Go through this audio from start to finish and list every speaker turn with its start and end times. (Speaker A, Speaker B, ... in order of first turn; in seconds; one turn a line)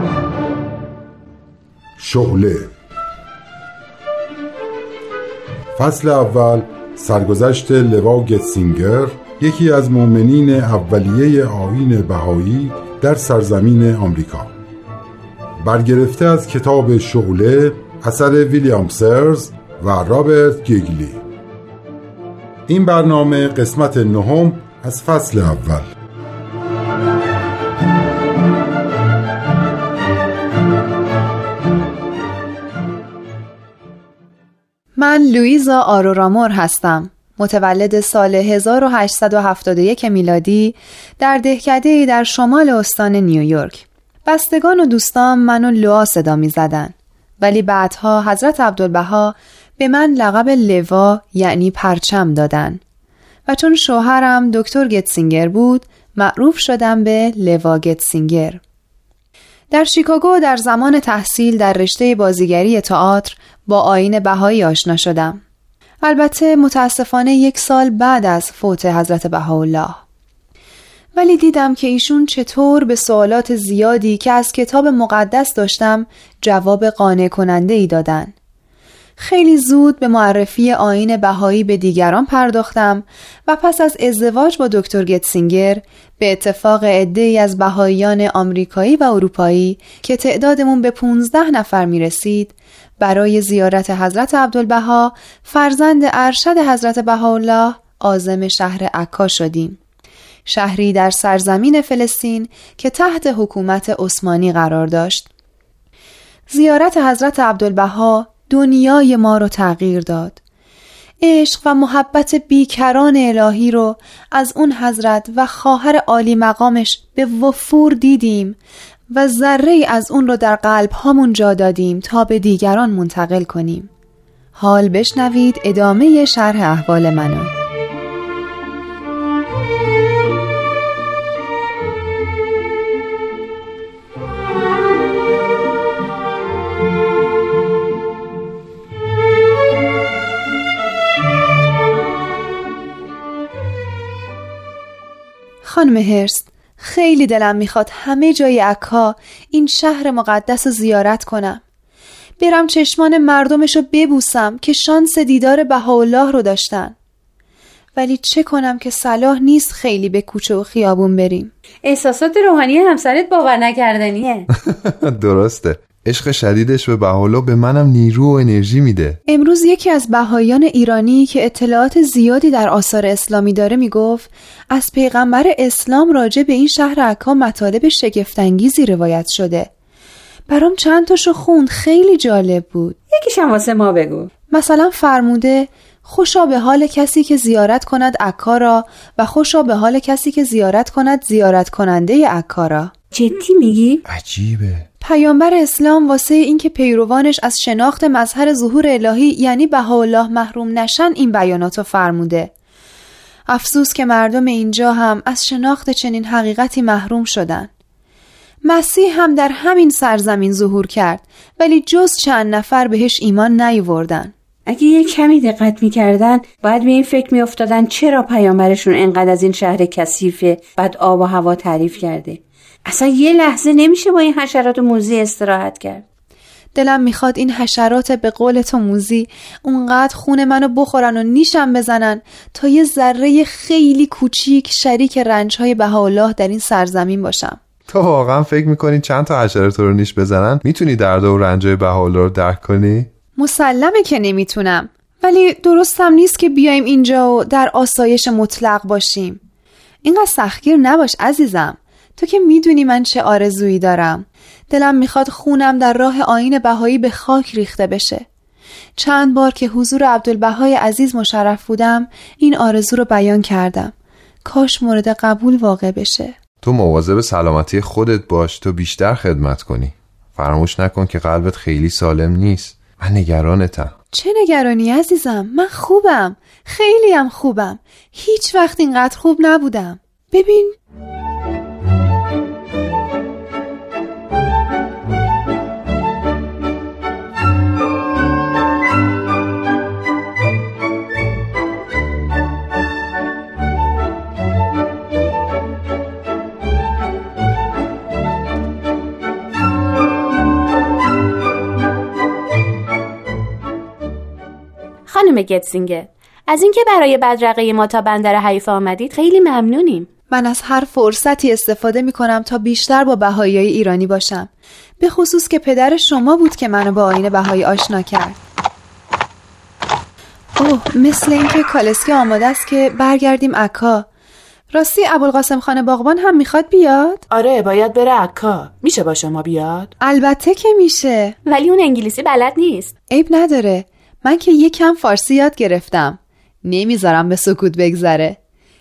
Speaker A: 2.0-2.7
Speaker A: 5.8-14.6
Speaker A: 15.6-21.2
Speaker A: 22.7-25.9
Speaker B: 35.0-52.8
Speaker B: 53.5-58.6
Speaker B: 59.7-65.4
Speaker B: 66.0-70.0
Speaker B: 71.2-78.3
Speaker B: 79.2-99.8
Speaker B: 100.5-105.3
Speaker B: 106.5-110.4
Speaker B: 111.2-118.6
Speaker B: 119.1-123.9
Speaker B: 124.5-127.5
Speaker B: 145.6-151.6
Speaker B: 152.4-157.0
Speaker B: 158.0-161.5
Speaker C: 161.8-164.5
Speaker D: 164.7-169.2
Speaker B: 169.3-179.7
Speaker B: 180.5-183.0
Speaker C: 183.1-184.3
Speaker B: 184.5-192.9
Speaker E: 193.1-193.7
Speaker C: 193.3-194.0
Speaker D: 194.1-194.9
Speaker B: 195.0-202.5
Speaker B: 203.5-207.7
Speaker B: 208.6-214.3
Speaker C: 214.7-226.0
Speaker B: 226.8-237.6
Speaker D: 237.9-243.1
Speaker B: 243.4-249.4
Speaker B: 250.0-258.3
Speaker B: 259.0-263.9
Speaker B: 264.4-266.4
Speaker D: 266.6-273.9
Speaker B: 274.1-280.8
Speaker E: 305.1-310.1
Speaker B: 310.3-314.5
Speaker B: 315.0-318.4
Speaker B: 320.6-324.1
Speaker B: 324.7-327.2
Speaker F: 327.3-329.9
Speaker B: 330.0-331.4
Speaker E: 331.5-332.9
Speaker B: 333.1-338.4